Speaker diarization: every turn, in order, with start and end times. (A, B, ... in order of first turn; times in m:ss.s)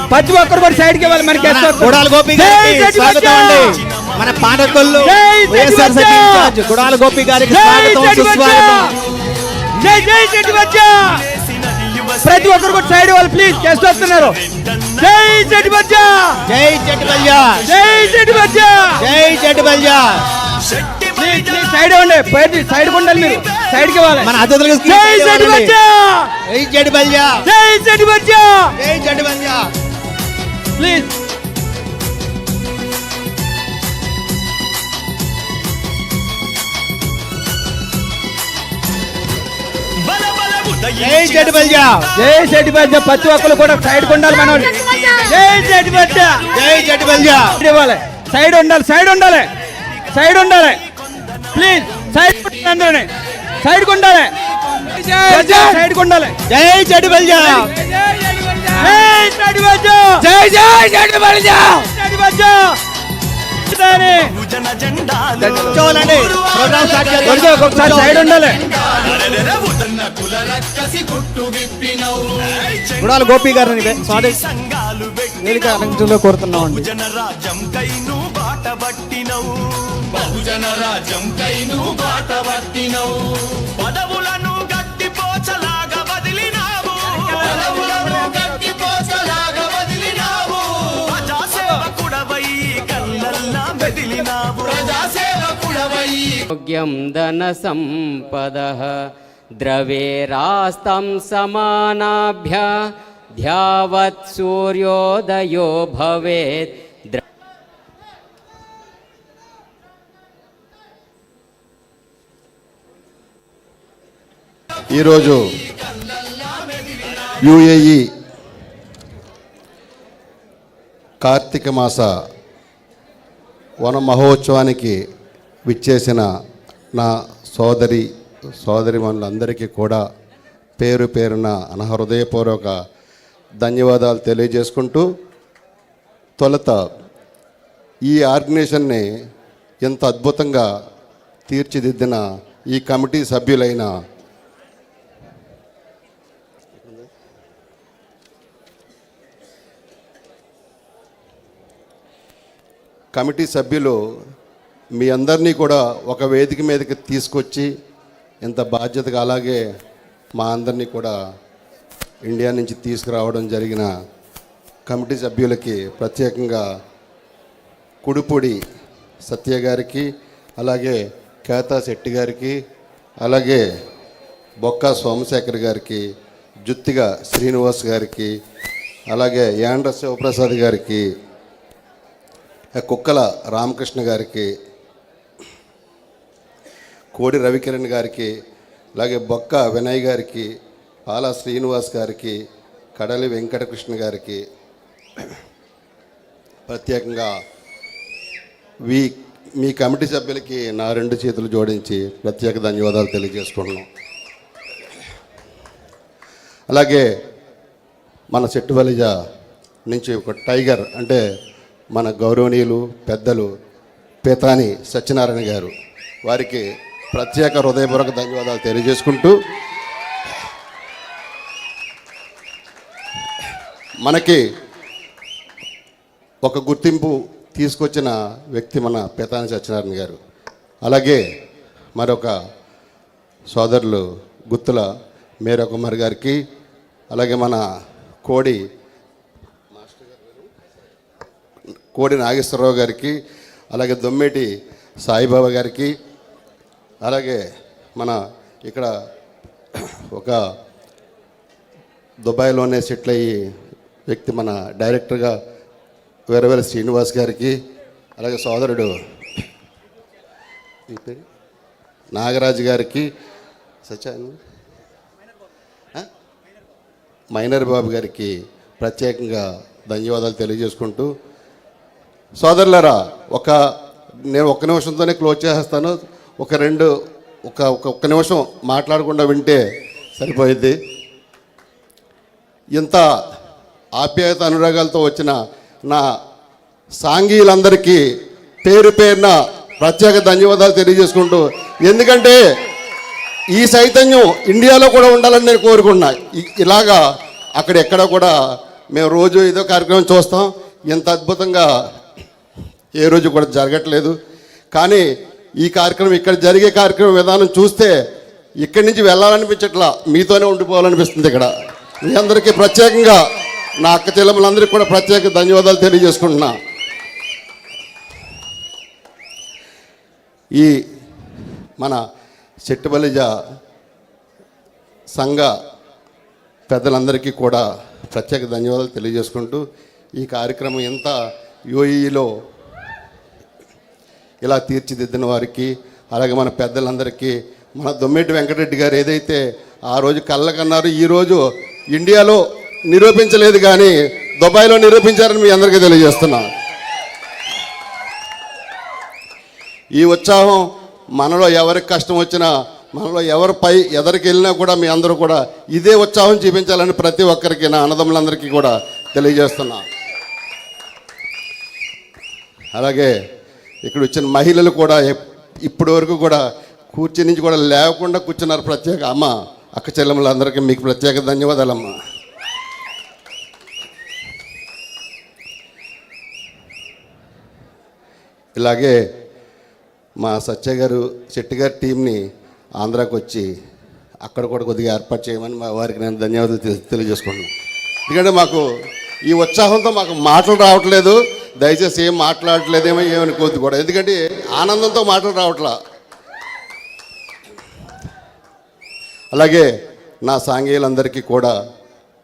0:00.1-0:03.7 A
0:01.4-0:08.9 B
0:04.0-0:04.8 C
0:05.0-0:06.5 A
0:07.4-0:08.9 A
0:09.8-0:11.2 A
0:09.8-0:12.7 C
0:12.2-0:14.4 A
0:13.7-0:15.6 C
0:15.0-0:16.4 A
0:16.5-0:17.6 B
0:17.0-0:19.5 C
0:17.6-0:19.1 A
0:19.0-0:20.2 B
0:20.4-0:21.7 C
0:21.2-0:26.3 A
0:23.0-0:23.5 C
0:24.2-0:25.7 B
0:26.5-0:27.4 B
0:27.4-0:28.7 A
0:28.8-0:29.7 B
0:30.8-0:31.1 A
0:40.0-0:41.9 C
0:41.0-0:42.1 B
0:42.1-0:46.5 A
0:44.2-0:47.3 C
0:46.5-0:47.6 B
0:47.4-0:49.5 A
0:50.1-0:50.8 A
0:51.1-0:51.8 C
0:51.5-0:54.3 A
0:54.9-0:55.8 B
0:55.1-0:56.4 A
0:56.5-0:58.7 B
0:58.7-1:00.3 A
1:00.2-1:01.8 B
1:01.7-1:02.8 A
1:03.6-1:04.3 A
1:04.4-1:07.8 C
1:05.6-1:08.2 B
1:07.2-1:08.6 A
1:08.7-1:35.9 C
1:13.0-1:14.4 B
1:15.5-1:16.9 B
1:36.2-1:47.2 D
1:54.9-1:55.4 E
1:57.4-1:58.1 E
2:01.2-2:02.1 E
2:03.8-2:05.0 E
2:05.7-2:06.3 E
2:07.0-2:08.0 E
2:08.6-2:10.0 E
2:10.8-2:12.7 E
2:13.6-2:15.1 E
2:16.4-2:16.9 E
2:18.1-2:19.0 E
2:19.8-2:20.7 E
2:21.5-2:23.9 E
2:33.1-2:34.0 E
2:35.0-2:37.7 E
2:38.4-2:39.6 E
2:40.4-2:41.1 E
2:42.2-2:43.9 E
2:44.9-2:46.6 E
2:48.0-2:48.6 E
2:49.3-2:52.6 E
2:53.2-2:53.6 E
2:54.6-2:56.0 E
2:56.7-2:58.3 E
2:59.1-3:01.1 E
3:02.8-3:04.5 E
3:07.1-3:08.3 E
3:09.0-3:10.5 E
3:11.1-3:12.4 E
3:13.0-3:14.4 E
3:16.7-3:17.3 E
3:18.9-3:23.8 E
3:26.7-3:27.1 E
3:28.3-3:29.1 E
3:29.9-3:31.2 E
3:31.9-3:33.5 E
3:34.2-3:35.7 E
3:36.2-3:39.3 E
3:44.0-3:44.4 E
3:46.4-3:50.2 E
3:50.8-3:51.2 E
3:52.0-3:52.3 E
3:53.5-3:54.8 E
3:55.4-3:56.4 E
3:57.1-3:57.6 E
3:58.2-3:58.6 E
4:01.9-4:03.2 E
4:03.7-4:04.5 E
4:05.0-4:05.9 E
4:07.0-4:07.4 E
4:08.0-4:08.9 E
4:09.8-4:10.4 E
4:12.2-4:13.3 E
4:14.1-4:15.4 E
4:16.3-4:17.6 E
4:18.2-4:18.9 E
4:20.9-4:21.2 E
4:22.1-4:23.1 E
4:23.8-4:24.4 E
4:27.3-4:31.1 E
4:32.4-4:33.6 E
4:34.3-4:36.9 E
4:37.5-4:39.6 E
4:40.2-4:40.8 E
4:42.8-4:43.0 E
4:44.0-4:45.4 E
4:47.0-4:48.0 E
4:48.6-4:52.4 E
4:53.5-4:57.0 E
4:57.6-4:58.3 E
4:58.9-5:01.7 E
5:03.0-5:04.2 E
5:04.7-5:05.1 E
5:05.6-5:08.0 E
5:08.6-5:11.5 E
5:12.0-5:13.2 E
5:13.8-5:16.5 E
5:22.6-5:23.3 E
5:25.2-5:25.5 E
5:26.7-5:29.6 E
5:30.2-5:31.1 E
5:31.7-5:32.3 E
5:34.4-5:46.5 E
5:50.0-5:50.6 E
5:51.2-5:59.8 E
6:02.7-6:03.1 E
6:03.9-6:06.4 E
6:06.9-6:11.9 E
6:18.6-6:19.0 E
6:20.2-6:22.2 E
6:22.8-6:23.5 E
6:24.2-6:27.5 E
6:28.1-6:28.6 E
6:29.3-6:35.7 E
6:39.3-6:39.7 E
6:40.2-6:41.5 E